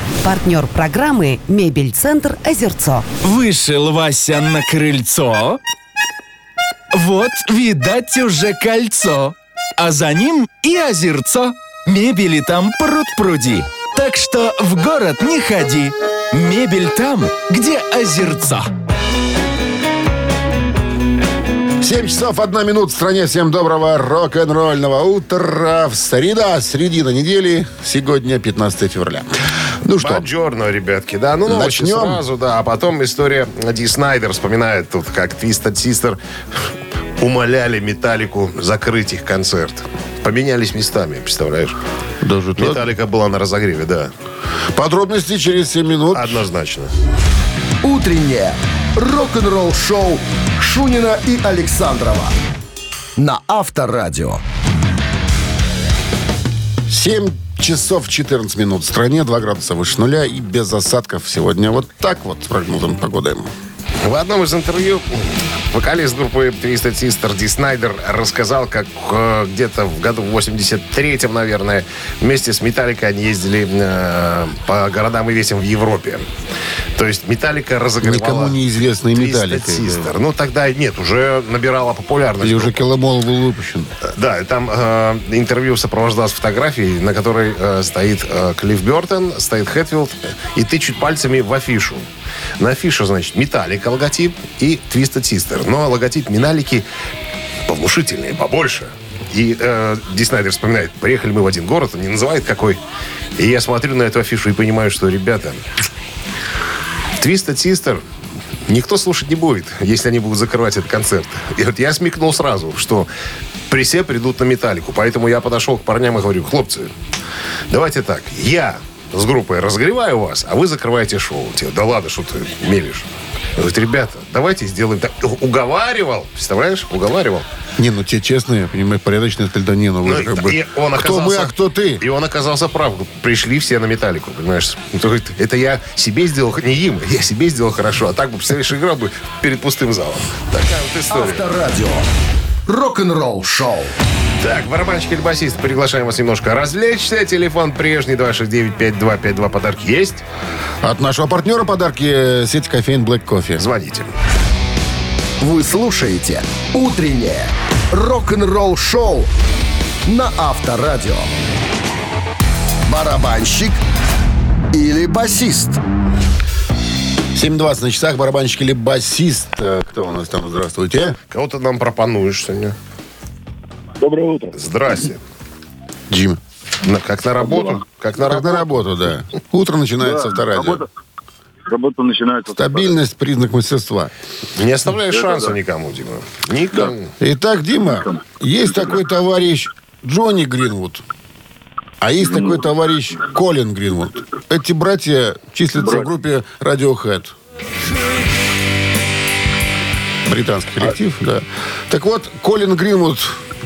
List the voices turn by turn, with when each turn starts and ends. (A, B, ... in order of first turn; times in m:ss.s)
0:00.2-0:03.1 A
0:03.2-0:05.6 B
0:06.9-0:18.7 B
0:21.8-0:29.3 C
0:29.8-0:30.3 C
0:30.0-0:36.2 D
0:31.5-0:32.2 C
0:37.2-0:41.8 D
0:42.2-0:42.9 C
0:42.6-0:44.1 D
0:44.7-0:46.4 C
0:46.1-0:46.9 D
0:47.8-0:52.4 E
0:53.2-0:54.4 E
0:56.9-1:03.5 C
1:04.0-1:16.3 D
1:17.0-1:18.6 D
1:18.0-1:20.1 C
1:19.2-1:22.8 D
1:22.4-1:23.9 C
1:24.0-1:32.1 D
1:32.6-1:36.9 D
1:37.7-1:42.8 D
1:43.4-1:45.6 D
1:47.2-1:48.0 D
1:48.7-1:53.1 D
1:53.7-1:56.9 D
1:57.7-2:07.5 D
2:07.8-2:12.0 C
2:10.0-2:21.4 D
2:21.1-2:22.0 E
2:22.7-2:23.9 E
2:24.4-2:30.2 D
2:30.8-2:33.6 C
2:33.6-2:34.1 D
2:35.4-2:39.3 E
2:40.1-2:41.3 E
2:42.9-2:43.8 E
2:44.7-2:45.8 E
2:47.3-2:51.2 C
2:51.3-2:52.8 D
2:54.0-2:54.5 F
2:54.5-2:55.2 D
2:56.1-2:56.4 C
2:56.8-2:58.8 D
2:57.4-2:57.8 F
2:58.2-3:00.9 C
3:00.0-3:00.8 F
3:01.7-3:03.0 F
3:02.6-3:04.1 C
3:04.6-3:07.1 D
3:05.1-3:05.5 F
3:07.2-3:11.0 C
3:12.0-3:17.4 C
3:20.2-3:23.4 C